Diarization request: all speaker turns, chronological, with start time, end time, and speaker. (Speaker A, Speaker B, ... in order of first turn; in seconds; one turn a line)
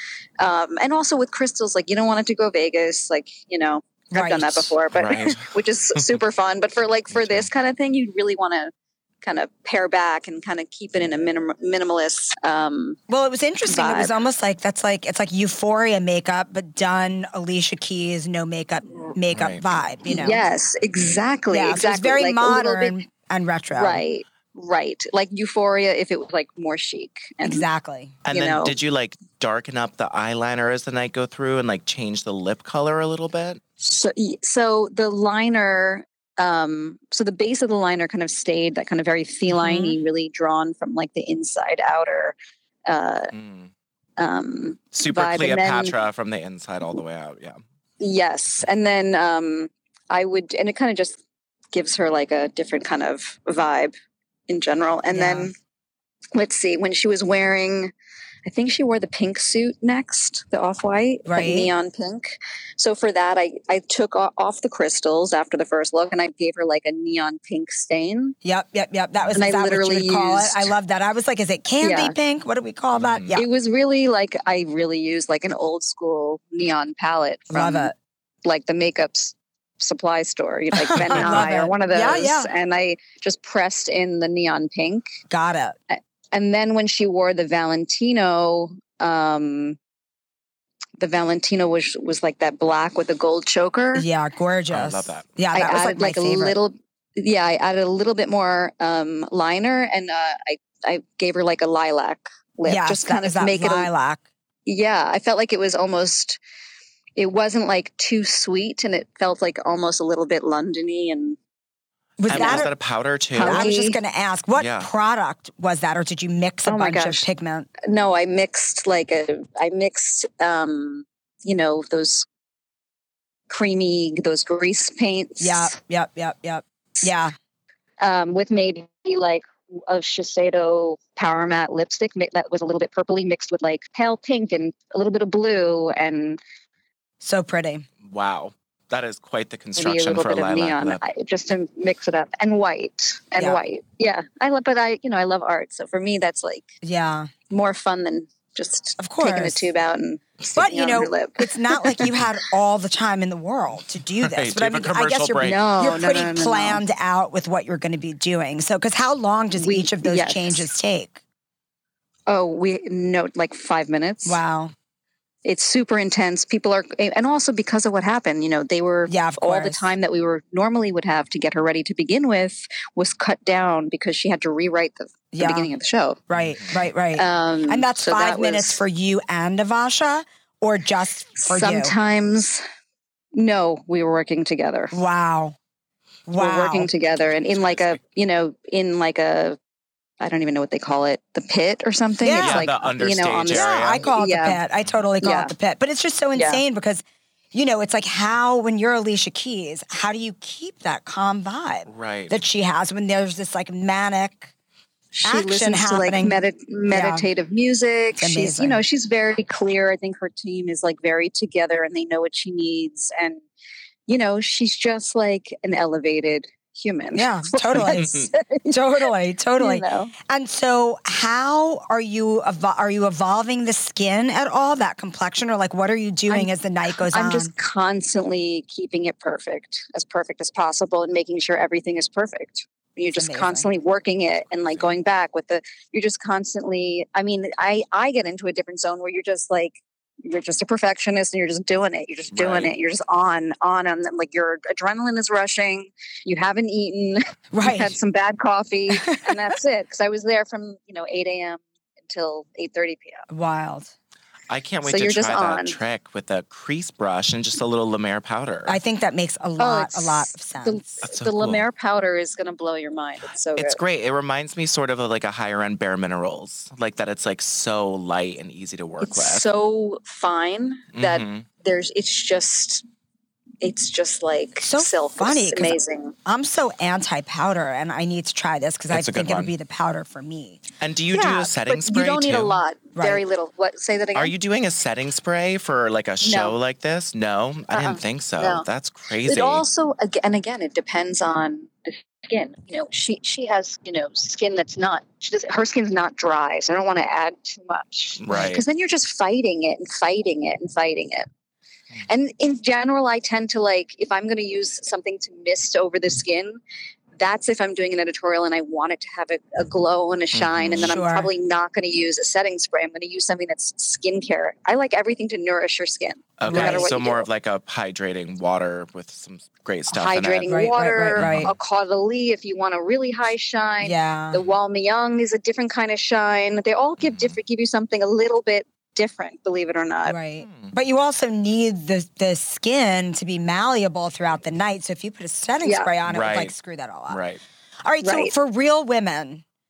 Speaker A: 0.4-13.0
Speaker B: 4.1-4.7
Speaker C: 4.9-6.1
Speaker C: 7.1-7.5
Speaker B: 13.1-20.4
Speaker A: 13.7-14.1
Speaker C: 19.3-19.7
Speaker A: 20.1-23.0
Speaker B: 21.5-24.0
Speaker A: 23.7-27.6
Speaker B: 27.4-28.2
Speaker C: 28.2-33.6
Speaker A: 28.3-28.7
Speaker A: 33.8-42.3
Speaker B: 39.5-40.0
Speaker A: 42.9-43.3
Speaker C: 43.3-43.7
Speaker A: 44.2-45.9
Speaker C: 44.9-47.6
Speaker A: 48.0-51.2
Speaker A: 51.7-53.9
Speaker A: 54.5-55.5
Speaker B: 55.1-55.5
Speaker A: 56.3-57.9
Speaker A: 58.4-68.4
Speaker B: 61.3-61.7
Speaker B: 68.4-73.5
Speaker A: 69.3-70.7
Speaker A: 71.8-72.1
Speaker C: 72.9-73.3
Speaker A: 73.3-77.9
Speaker B: 77.5-77.9
Speaker A: 78.4-85.0
Speaker B: 80.7-82.5
Speaker B: 85.3-85.8
Speaker A: 85.9-89.8
Speaker A: 91.0-94.1
Speaker B: 93.9-96.6
Speaker C: 94.7-95.3
Speaker A: 95.5-103.9
Speaker B: 102.6-104.2
Speaker A: 104.7-106.4
Speaker A: 107.2-111.4
Speaker B: 112.2-112.7
Speaker C: 112.3-113.7
Speaker A: 112.3-112.6
Speaker A: 113.3-114.0
Speaker B: 113.4-117.7
Speaker C: 114.5-114.9
Speaker A: 116.7-117.2
Speaker A: 117.9-122.3
Speaker A: 123.5-125.7
Speaker B: 125.4-127.3
Speaker A: 128.0-136.4
Speaker B: 137.2-137.9
Speaker C: 138.0-141.0
Speaker A: 139.8-146.7
Speaker B: 146.8-147.3
Speaker A: 147.5-152.1
Speaker B: 149.0-149.7
Speaker B: 150.6-161.2
Speaker C: 154.2-155.6
Speaker A: 155.4-156.8
Speaker A: 159.6-160.7
Speaker A: 162.3-164.4
Speaker B: 164.2-164.7
Speaker A: 165.4-176.2
Speaker B: 169.1-169.9
Speaker B: 175.3-175.7
Speaker B: 176.3-181.9
Speaker C: 176.3-176.9
Speaker A: 177.1-178.8
Speaker A: 181.4-182.6
Speaker A: 183.3-185.0
Speaker B: 184.9-185.6
Speaker B: 186.3-186.9
Speaker A: 186.4-189.6
Speaker A: 190.2-194.6
Speaker B: 192.2-192.7
Speaker C: 192.4-194.0
Speaker B: 193.5-204.5
Speaker A: 195.2-195.5
Speaker A: 196.3-196.6
Speaker C: 201.9-202.4
Speaker A: 205.1-213.4
Speaker B: 205.2-207.2
Speaker B: 208.2-208.8
Speaker A: 214.1-218.8
Speaker B: 217.1-227.5
Speaker C: 217.8-218.0
Speaker A: 219.6-220.1
Speaker A: 227.1-253.2
Speaker B: 233.1-233.7
Speaker C: 234.7-234.9
Speaker C: 242.3-242.7
Speaker B: 247.5-247.9
Speaker B: 248.9-249.4
Speaker B: 253.3-253.9
Speaker C: 254.5-258.8
Speaker A: 254.8-255.8
Speaker B: 258.7-261.0
Speaker A: 259.6-263.8
Speaker C: 261.0-261.6
Speaker C: 263.5-269.4
Speaker A: 269.0-272.8
Speaker C: 270.9-271.4
Speaker A: 273.6-276.1
Speaker B: 274.6-280.6
Speaker C: 278.9-279.5
Speaker C: 280.8-282.6
Speaker A: 281.1-284.3
Speaker B: 282.9-283.2
Speaker C: 284.1-289.6
Speaker A: 286.2-286.5
Speaker A: 287.7-288.6
Speaker A: 289.2-301.3
Speaker C: 298.2-298.6
Speaker A: 302.1-306.6
Speaker A: 307.2-317.3
Speaker C: 310.3-310.9
Speaker B: 310.8-311.3
Speaker C: 316.4-320.6
Speaker B: 316.4-316.9
Speaker A: 319.9-330.1
Speaker B: 320.5-321.5
Speaker C: 321.2-321.5
Speaker B: 323.8-324.4
Speaker C: 327.0-327.4
Speaker B: 330.1-337.2
Speaker C: 330.4-330.7
Speaker A: 335.6-335.9
Speaker C: 336.1-336.5
Speaker C: 337.1-337.4
Speaker B: 337.8-339.4
Speaker A: 338.0-338.3